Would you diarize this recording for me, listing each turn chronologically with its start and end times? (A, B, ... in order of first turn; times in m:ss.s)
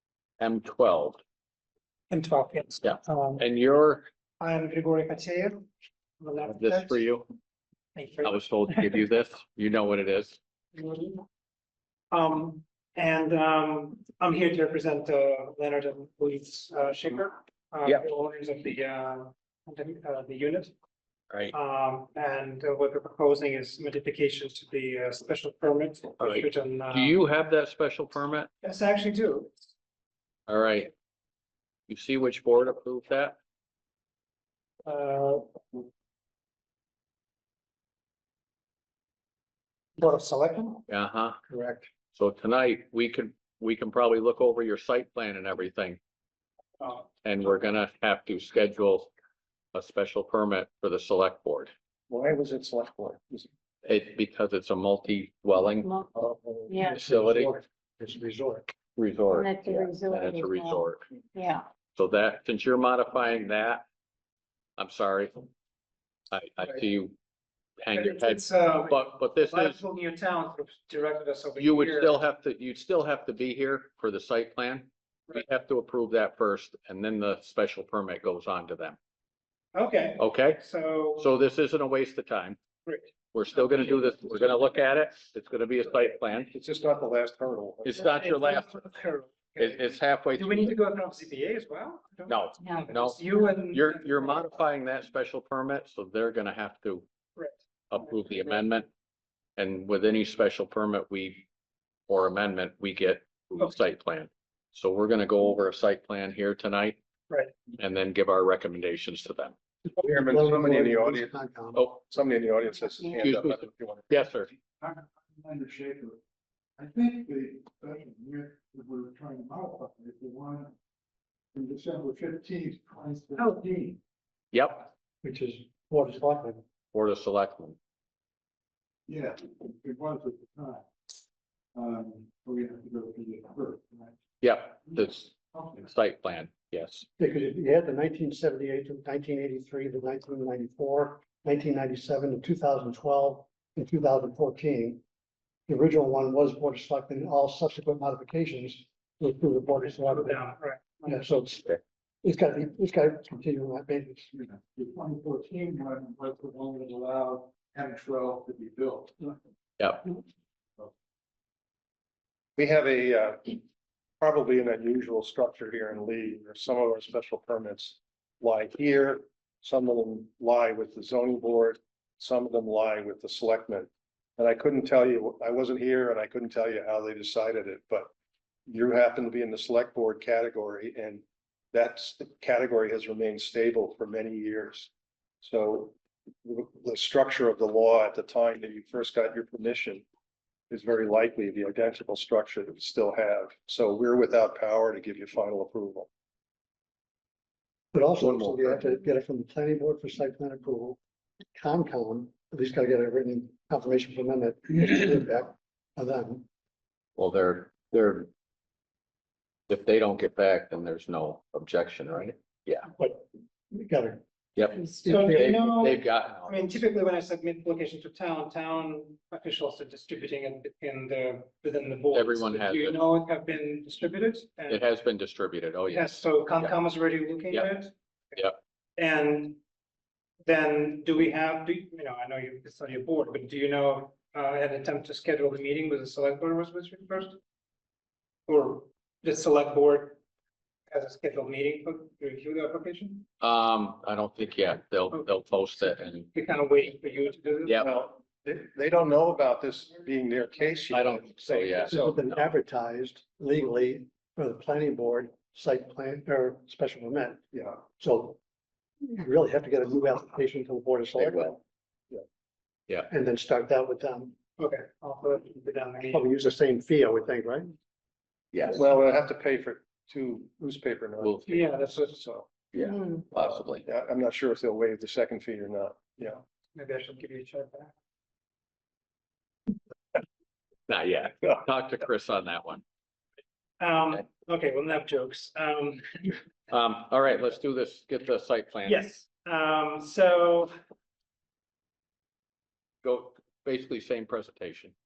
0:00.4-0:01.2 A
0:02.1-0:03.4 B
0:02.8-0:04.0 A
0:04.4-0:05.7 B
0:06.2-0:07.1 B
0:06.4-0:07.3 A
0:07.9-0:09.0 B
0:08.2-0:10.4 A
0:10.8-0:11.2 B
0:12.1-0:20.7 B
0:21.5-0:27.2 B
0:26.2-0:28.5 A
0:28.6-0:29.5 B
0:30.5-0:30.9 A
0:31.9-0:33.4 A
0:34.8-0:35.8 B
0:40.0-0:40.8 B
0:40.9-0:41.4 A
0:41.5-0:41.9 C
0:42.1-0:46.0 A
0:46.8-0:47.1 B
0:47.2-0:49.1 A
0:49.7-0:51.7 A
0:52.1-0:53.5 D
0:53.8-0:55.9 A
0:55.8-0:56.1 E
0:56.2-0:58.7 C
0:56.7-0:57.0 E
0:56.8-0:57.5 A
0:59.0-1:01.0 A
0:59.3-1:01.7 E
1:02.0-1:03.8 A
1:04.8-1:05.4 A
1:06.3-1:07.2 A
1:07.8-1:09.8 A
1:07.9-1:12.2 B
1:11.6-1:19.0 A
1:19.7-1:21.3 B
1:20.2-1:20.6 A
1:21.2-1:22.6 A
1:22.9-1:23.1 B
1:23.3-1:26.5 A
1:26.5-1:28.0 D
1:27.8-1:28.8 A
1:28.0-1:34.5 B
1:29.6-1:30.8 A
1:32.3-1:37.0 A
1:32.6-1:32.9 E
1:37.9-1:38.9 A
1:39.6-1:41.5 A
1:42.1-1:47.0 A
1:47.8-1:49.6 A
1:50.0-1:51.8 C
1:50.0-1:51.3 D
1:52.0-1:54.1 D
1:53.2-1:54.5 A
1:54.8-1:56.2 F
1:56.8-2:00.7 F
2:01.6-2:04.0 F
2:04.5-2:04.9 A
2:05.2-2:06.6 C
2:06.9-2:07.8 A
2:09.1-2:10.8 F
2:11.8-2:14.1 F
2:14.4-2:17.0 A
2:17.2-2:25.0 C
2:25.7-2:30.4 C
2:30.0-2:31.0 B
2:31.0-2:34.3 C
2:34.4-2:39.3 F
2:39.8-2:40.1 A
2:42.6-2:43.6 D
2:44.2-2:58.1 D
2:58.7-3:04.9 D
3:05.4-3:10.0 D
3:10.7-3:16.1 D
3:17.9-3:21.0 C
3:18.2-3:18.9 D
3:21.5-3:26.4 C
3:27.2-3:28.3 A
3:29.7-3:32.9 A
3:33.0-3:34.2 C
3:34.6-3:36.7 A
3:34.8-3:35.9 C
3:35.0-3:44.8 B
3:42.1-3:43.0 A
3:44.7-3:46.8 A
3:45.9-3:48.4 B
3:49.0-3:49.6 B
3:50.4-3:57.4 B
3:58.5-4:00.2 B
4:00.9-4:03.3 B
4:03.4-4:06.3 A
4:06.3-4:07.8 B
4:07.8-4:12.2 D
4:10.9-4:12.4 A
4:11.8-4:17.4 C
4:17.5-4:17.8 D
4:18.0-4:18.4 C
4:19.0-4:21.6 C
4:21.2-4:21.6 A
4:23.1-4:24.3 C
4:24.6-4:26.3 B
4:26.1-4:27.7 C
4:28.5-4:28.8 A
4:28.6-4:32.5 D
4:31.2-4:31.6 A
4:31.5-4:32.5 B
4:32.7-4:33.8 A
4:33.4-4:36.4 D
4:36.8-4:37.9 B
4:40.9-4:42.8 A
4:43.8-4:46.4 B
4:46.7-4:49.0 A
4:48.8-4:50.7 B
4:53.0-4:54.9 A